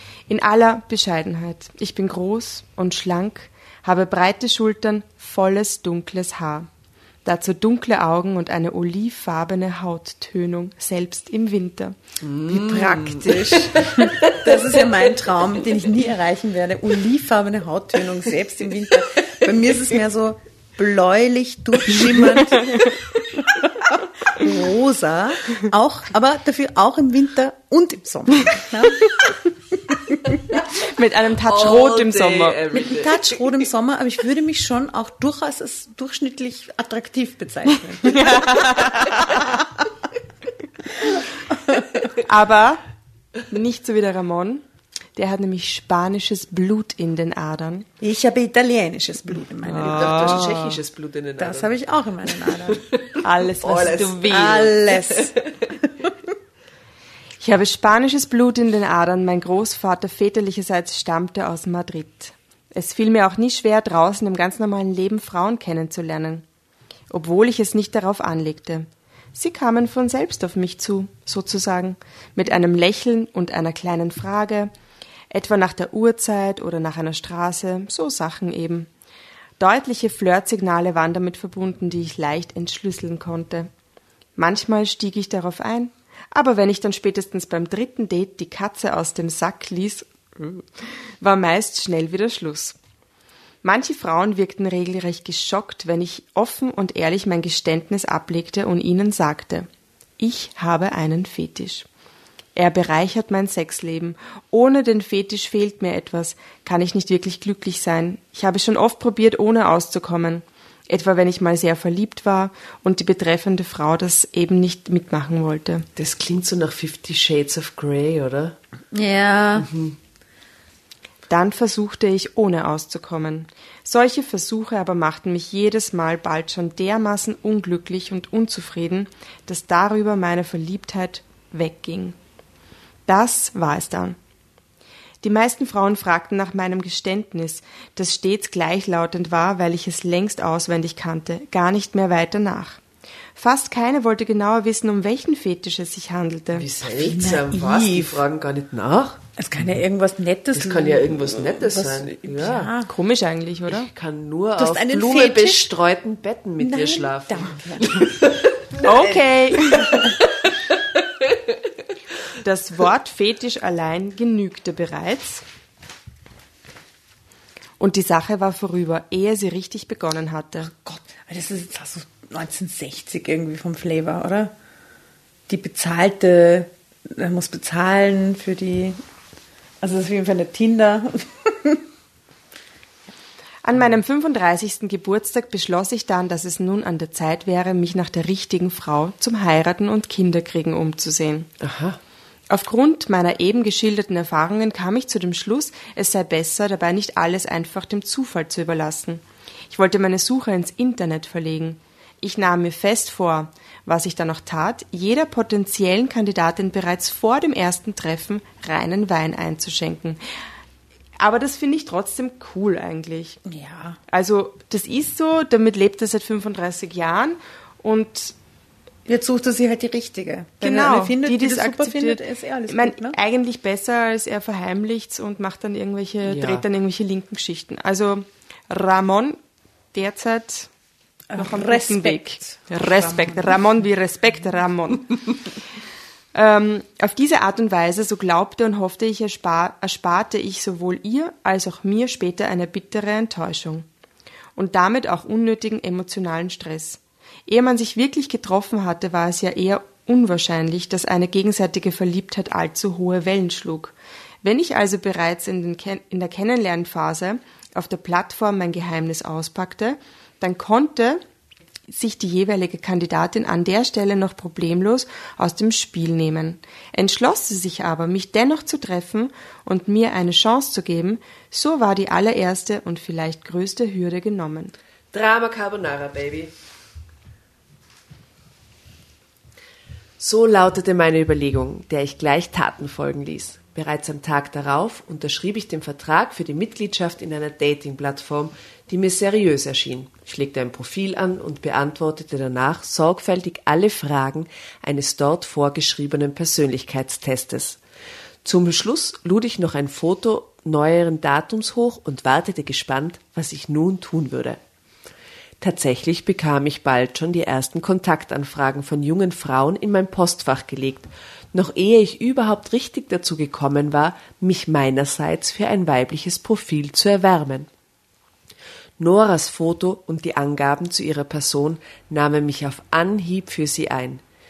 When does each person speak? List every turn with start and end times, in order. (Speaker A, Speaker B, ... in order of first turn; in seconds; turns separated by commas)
Speaker A: 0.3-6.7, Speaker A: 7.2-12.0, Speaker B: 12.2-14.5, Speaker C: 12.5-29.3, Speaker B: 30.3-30.8, Speaker A: 30.7-32.6, Speaker B: 31.4-33.4, Speaker C: 32.7-39.7, Speaker A: 38.0-39.2, Speaker C: 41.1-41.8, Speaker A: 42.2-42.8, Speaker A: 43.5-44.6, Speaker A: 45.1-47.9, Speaker C: 48.0-50.4, Speaker A: 49.6-50.8, Speaker B: 49.7-51.7, Speaker C: 51.4-52.8, Speaker B: 52.6-55.7, Speaker A: 53.2-55.0, Speaker C: 54.3-55.3, Speaker A: 57.4-66.4, Speaker A: 67.1-74.7, Speaker A: 75.3-78.9, Speaker A: 79.6-83.7, Speaker A: 84.3-92.8, Speaker A: 93.6-99.7, Speaker A: 100.2-101.8, Speaker A: 102.5-115.8, Speaker B: 116.0-118.5, Speaker C: 118.9-119.7, Speaker B: 119.6-120.0, Speaker A: 121.3-132.2, Speaker A: 133.1-134.2, Speaker A: 135.2-142.8, Speaker A: 143.3-146.7, Speaker B: 146.5-149.2, Speaker C: 147.0-148.2, Speaker C: 149.4-152.9, Speaker B: 150.5-152.7, Speaker A: 152.8-153.9, Speaker B: 153.7-158.9, Speaker C: 154.6-155.7, Speaker C: 156.6-158.0, Speaker A: 158.8-160.1, Speaker A: 162.4-165.4, Speaker A: 167.8-170.7, Speaker C: 170.8-174.5, Speaker C: 175.5-179.0, Speaker C: 179.8-181.8, Speaker A: 183.6-191.5, Speaker B: 191.6-192.0, Speaker A: 192.5-210.2, Speaker A: 211.2-213.4, Speaker C: 213.4-214.0, Speaker A: 214.1-218.3, Speaker C: 219.1-223.2, Speaker A: 220.6-229.4, Speaker B: 226.2-226.6, Speaker A: 229.9-230.7, Speaker C: 231.3-233.6, Speaker A: 231.3-235.4, Speaker A: 236.3-243.8, Speaker A: 244.6-261.2, Speaker A: 261.9-274.7, Speaker B: 275.1-276.5, Speaker B: 280.2-297.8, Speaker B: 298.4-304.6, Speaker B: 305.6-317.7, Speaker B: 319.0-324.2